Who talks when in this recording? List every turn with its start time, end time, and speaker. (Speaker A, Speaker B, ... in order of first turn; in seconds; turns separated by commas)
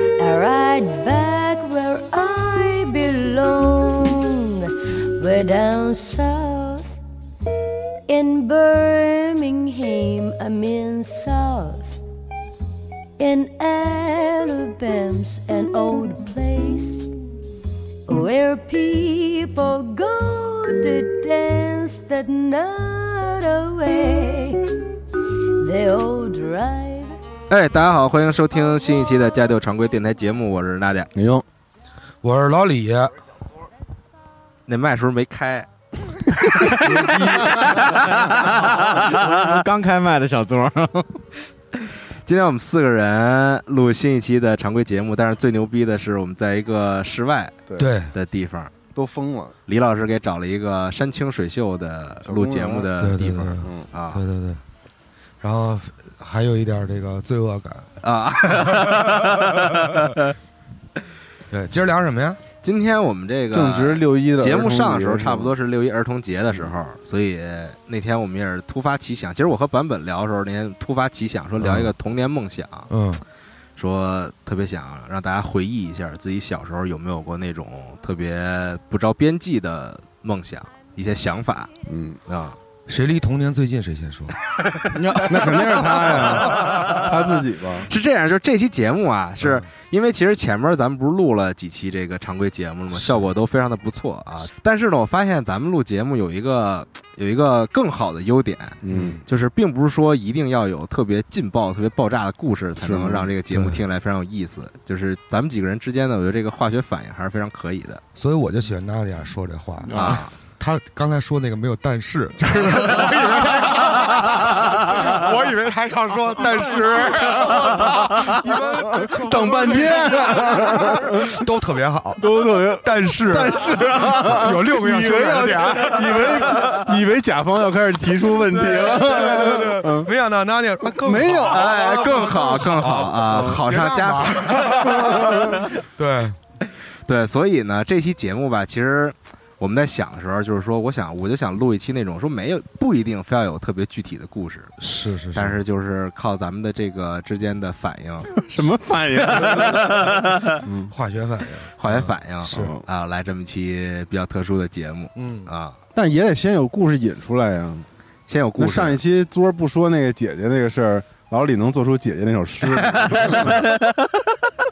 Speaker A: 0.2-7.0, Speaker A: 8.1-11.9, Speaker A: 13.2-17.1, Speaker A: 18.1-24.6, Speaker A: 25.6-27.2, Speaker B: 27.5-31.1, Speaker C: 31.1-31.4, Speaker D: 32.2-33.1, Speaker B: 34.7-35.7, Speaker B: 36.5-39.4, Speaker E: 36.9-41.3, Speaker B: 42.2-47.6, Speaker D: 47.8-48.1, Speaker B: 48.1-48.7, Speaker C: 48.9-49.5, Speaker B: 49.7-54.2, Speaker C: 52.2-52.9, Speaker D: 53.0-54.6, Speaker C: 53.6-53.9, Speaker D: 55.4-60.1, Speaker B: 58.0-60.4, Speaker D: 61.5-62.4, Speaker B: 62.6-72.9, Speaker C: 63.5-65.5, Speaker D: 71.6-71.9, Speaker D: 72.9-73.2, Speaker B: 73.8-81.7, Speaker C: 81.9-82.2, Speaker B: 82.3-82.6, Speaker D: 82.9-84.4, Speaker E: 84.9-85.5, Speaker C: 85.3-87.9, Speaker B: 86.1-87.1, Speaker B: 87.9-108.0, Speaker D: 89.4-89.7, Speaker D: 93.0-93.3, Speaker C: 98.8-99.2, Speaker D: 98.9-99.2, Speaker C: 102.8-103.3, Speaker D: 103.5-103.8, Speaker D: 108.2-126.8, Speaker B: 109.9-110.3, Speaker B: 114.0-114.7, Speaker C: 117.2-121.4, Speaker C: 122.2-130.1, Speaker D: 128.5-136.4, Speaker C: 131.0-133.6, Speaker B: 131.5-135.0, Speaker C: 134.9-135.6, Speaker B: 137.1-144.7, Speaker D: 144.8-145.6, Speaker B: 145.3-148.5, Speaker C: 148.4-150.9, Speaker B: 149.3-150.6, Speaker D: 150.9-152.8, Speaker B: 151.8-155.8, Speaker C: 152.5-152.8, Speaker D: 155.2-155.5, Speaker C: 155.9-157.9, Speaker B: 158.3-159.0, Speaker C: 158.6-163.7, Speaker B: 162.7-164.1